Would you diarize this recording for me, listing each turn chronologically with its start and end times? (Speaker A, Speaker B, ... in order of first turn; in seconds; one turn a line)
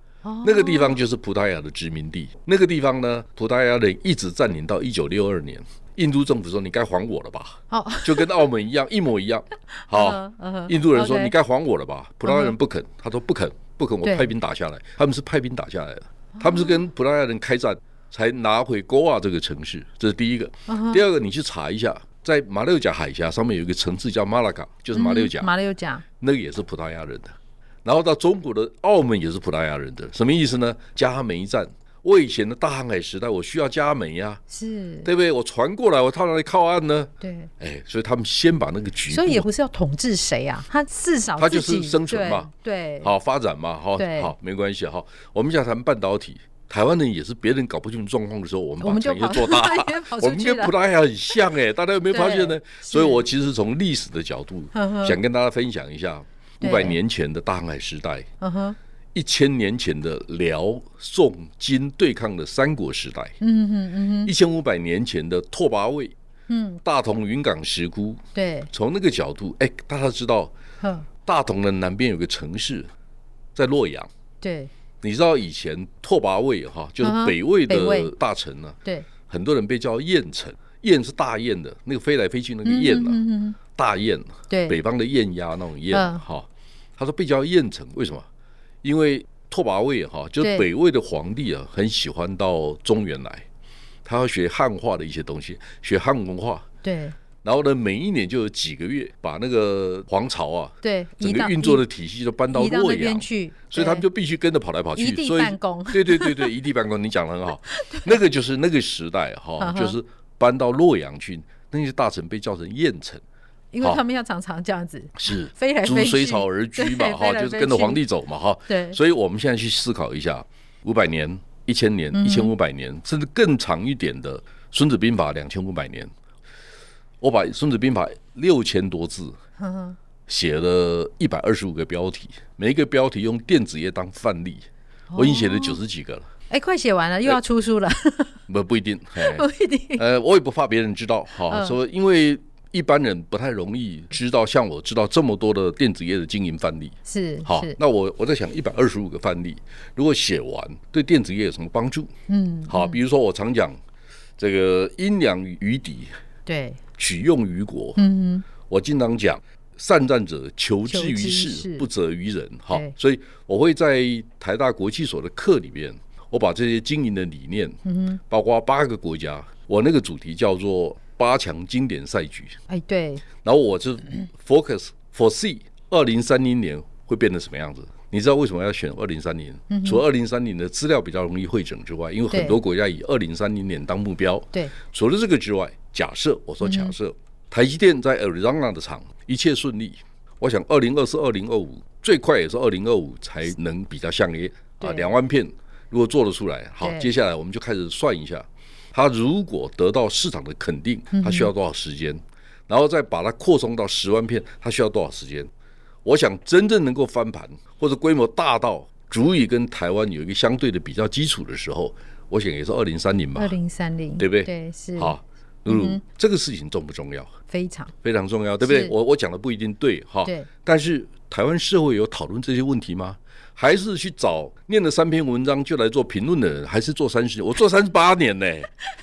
Speaker A: 0.2-1.0
Speaker B: 0.4-25.5
Speaker A: 7.7-8.4
Speaker A: 9.8-11.3
Speaker A: 12.2-12.5
Speaker A: 14.0-14.3
Speaker A: 16.4-16.8
Speaker A: 20.7-21.0
Speaker A: 24.9-26.0
Speaker B: 26.2-34.4
Speaker A: 34.5-35.1
Speaker B: 35.0-39.5
Speaker A: 37.2-37.5
Speaker A: 39.1-43.1
Speaker B: 41.4-42.5
Speaker B: 43.0-58.3
Speaker A: 44.0-44.3
Speaker A: 48.8-50.7
Speaker A: 52.1-53.2
Speaker A: 54.7-55.2
Speaker A: 56.6-57.0
Speaker A: 58.4-58.8
Speaker B: 59.1-63.4
Speaker A: 63.4-64.3
Speaker B: 64.2-66.2
Speaker A: 66.5-66.8
Speaker B: 66.8-70.5
Speaker A: 68.3-68.7
Speaker A: 70.8-71.1
Speaker B: 71.2-72.9
Speaker B: 73.5-74.1
Speaker A: 74.4-74.7
Speaker B: 75.0-88.3
Speaker A: 77.0-78.1
Speaker A: 82.7-83.6
Speaker A: 84.5-84.8
Speaker A: 85.9-86.2
Speaker B: 88.8-93.5
Speaker A: 90.4-90.7
Speaker B: 94.0-96.7
Speaker A: 96.8-97.2
Speaker B: 97.4-113.2
Speaker A: 100.8-101.8
Speaker A: 102.5-104.0
Speaker A: 105.0-106.5
Speaker A: 107.7-108.1
Speaker A: 109.6-110.0
Speaker A: 113.7-118.0
Speaker B: 115.2-126.1
Speaker A: 118.7-119.0
Speaker A: 122.1-122.5
Speaker B: 127.2-129.4
Speaker A: 129.6-130.0
Speaker B: 130.3-136.3
Speaker A: 135.1-135.8
Speaker A: 136.5-138.4
Speaker B: 138.5-152.1
Speaker A: 139.2-140.0
Speaker A: 141.5-141.8
Speaker A: 147.1-147.8
Speaker A: 152.3-153.0
Speaker B: 152.7-153.8
Speaker B: 154.4-156.1
Speaker A: 156.5-156.8
Speaker B: 157.0-172.6
Speaker A: 158.0-158.4
Speaker A: 160.9-161.9
Speaker A: 162.7-162.9
Speaker A: 167.8-168.2
Speaker A: 172.7-173.2
Speaker B: 173.4-205.5
Speaker A: 179.7-180.0
Speaker A: 182.3-182.6
Speaker A: 186.6-186.9
Speaker A: 194.8-195.1
Speaker A: 196.8-197.1
Speaker A: 201.1-201.5
Speaker B: 206.1-213.5
Speaker A: 213.3-216.0
Speaker B: 214.2-217.3
Speaker A: 217.5-217.9
Speaker B: 218.0-228.7
Speaker A: 218.6-218.9